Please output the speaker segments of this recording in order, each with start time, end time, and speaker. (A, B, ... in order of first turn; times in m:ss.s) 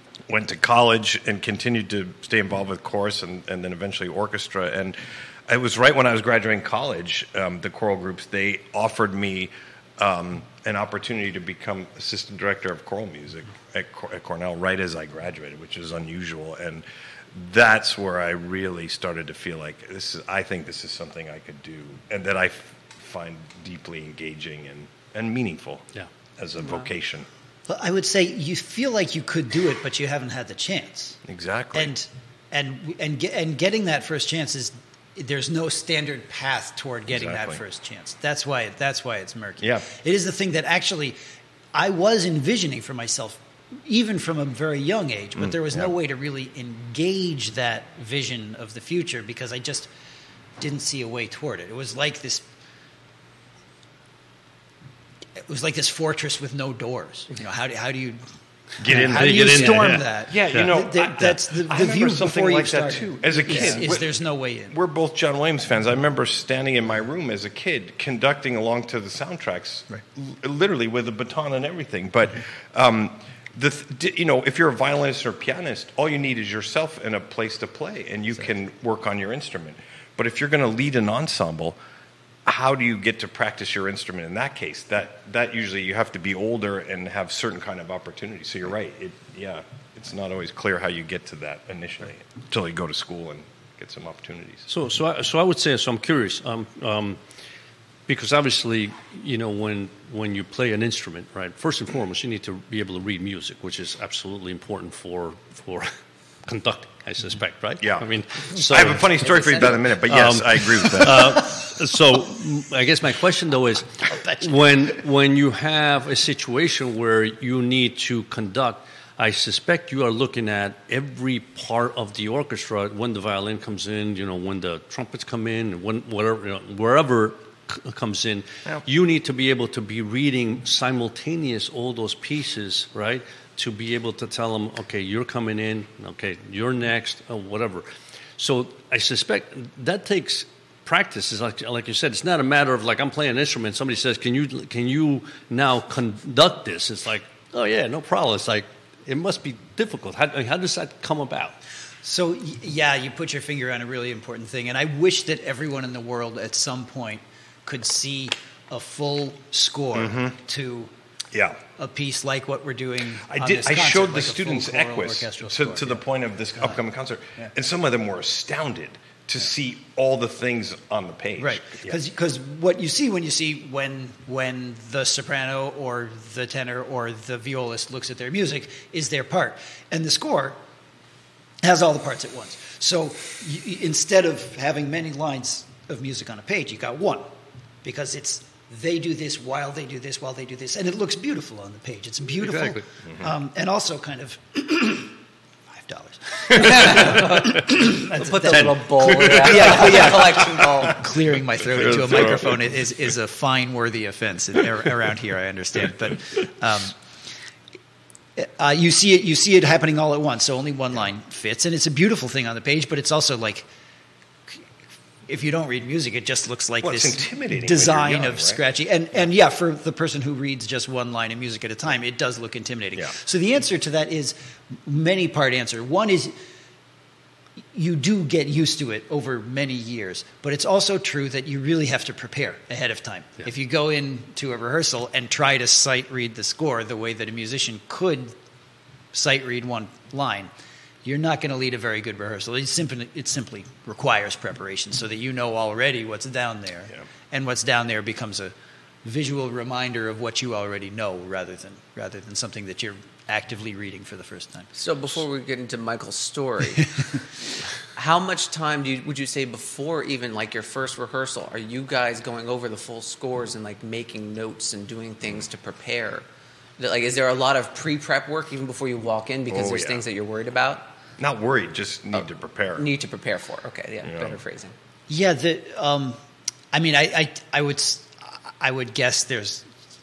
0:00.3-0:27.3 A
0:26.6-0:26.9 B
0:27.7-0:31.2 C
0:31.2-0:31.9 A
0:31.7-0:41.2 C
0:37.1-0:37.6 A
0:41.7-0:49.9 C
0:45.4-0:45.9 A
0:50.6-0:52.4 C
0:55.4-0:58.2 C
0:58.8-1:04.1 A
0:58.8-1:04.8 C
0:58.9-1:00.7 D
1:04.7-1:21.8 A
1:22.4-1:34.7 A
1:34.7-1:37.2 D
1:38.1-1:45.9 D
1:46.4-1:49.1 D
1:47.8-1:51.5 A
1:49.2-1:49.8 B
1:50.0-2:17.8 D
2:18.4-2:31.5 D
2:32.0-2:40.9 C
2:39.9-2:40.3 A
2:41.3-2:41.6 A
2:41.8-2:46.0 C
2:43.2-2:52.0 A
2:51.4-3:00.6 C
3:01.6-3:07.3 C
3:07.8-3:15.1 C
3:12.4-3:12.8 D
3:15.7-3:27.0 C
3:16.5-3:21.0 B
3:16.6-3:17.5 D
3:18.3-3:20.6 D
3:21.6-3:22.6 A
3:28.4-3:33.7 C
3:35.3-3:46.3 C
3:36.8-3:38.6 A
3:47.7-3:58.3 C
3:59.1-4:00.5 C
4:01.0-4:14.7 C
4:14.8-4:17.2 B
4:17.8-4:26.2 B
4:26.8-4:30.9 B
4:29.5-4:30.0 A
4:31.2-4:32.9 A
4:32.8-4:34.7 B
4:34.0-4:34.4 A
4:35.1-4:36.2 C
4:36.7-4:39.7 C